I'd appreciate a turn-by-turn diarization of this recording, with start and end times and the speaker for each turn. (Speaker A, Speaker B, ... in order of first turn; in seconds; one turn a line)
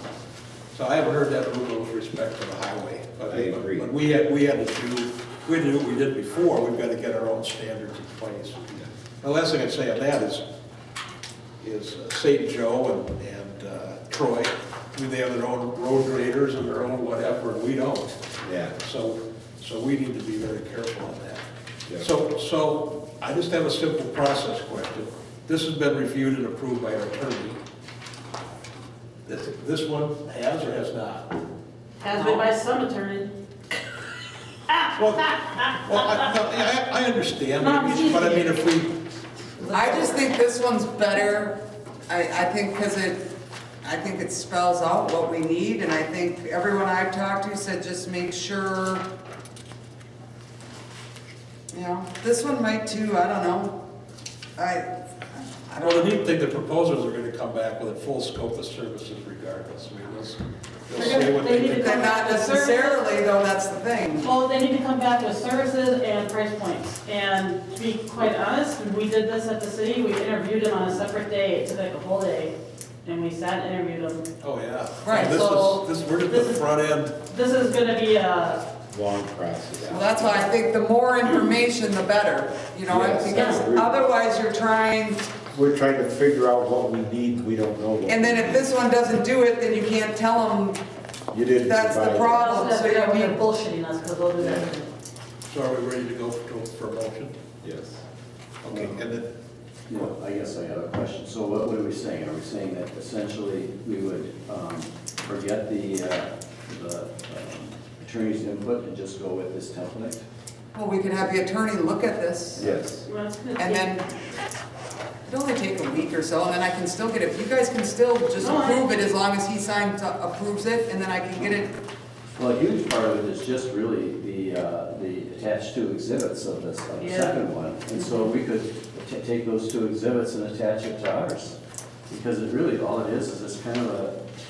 Speaker A: 0.7-8.6
Speaker B: 3.3-3.9
Speaker A: 9.2-10.4
Speaker A: 11.6-18.1
Speaker B: 18.4-18.8
Speaker A: 18.8-21.4
Speaker A: 22.0-27.6
Speaker A: 29.3-31.3
Speaker C: 32.0-33.3
Speaker D: 32.2-32.4
Speaker A: 34.9-38.9
Speaker C: 37.6-38.6
Speaker C: 39.6-40.0
Speaker D: 39.7-43.2
Speaker D: 43.8-49.0
Speaker D: 51.7-53.8
Speaker D: 54.6-56.2
Speaker A: 55.8-61.9
Speaker C: 60.9-63.0
Speaker D: 61.0-64.3
Speaker C: 64.2-72.5
Speaker C: 73.0-74.2
Speaker A: 74.4-77.2
Speaker D: 75.0-75.7
Speaker C: 75.2-78.6
Speaker B: 78.9-80.3
Speaker D: 79.9-85.3
Speaker B: 82.9-83.9
Speaker B: 85.5-88.6
Speaker D: 88.1-90.8
Speaker B: 91.3-92.5
Speaker D: 91.7-93.4
Speaker C: 92.2-94.9
Speaker B: 94.4-94.7
Speaker A: 95.5-97.3
Speaker B: 97.6-98.0
Speaker A: 98.6-99.3
Speaker E: 99.9-110.2
Speaker D: 110.8-112.6
Speaker B: 112.6-113.0
Speaker E: 112.6-112.9
Speaker C: 113.0-113.9
Speaker D: 113.6-114.1
Speaker D: 115.3-121.8
Speaker C: 118.4-119.1
Speaker E: 122.3-134.2
Speaker C: 127.0-127.4
Speaker C: 127.9-128.3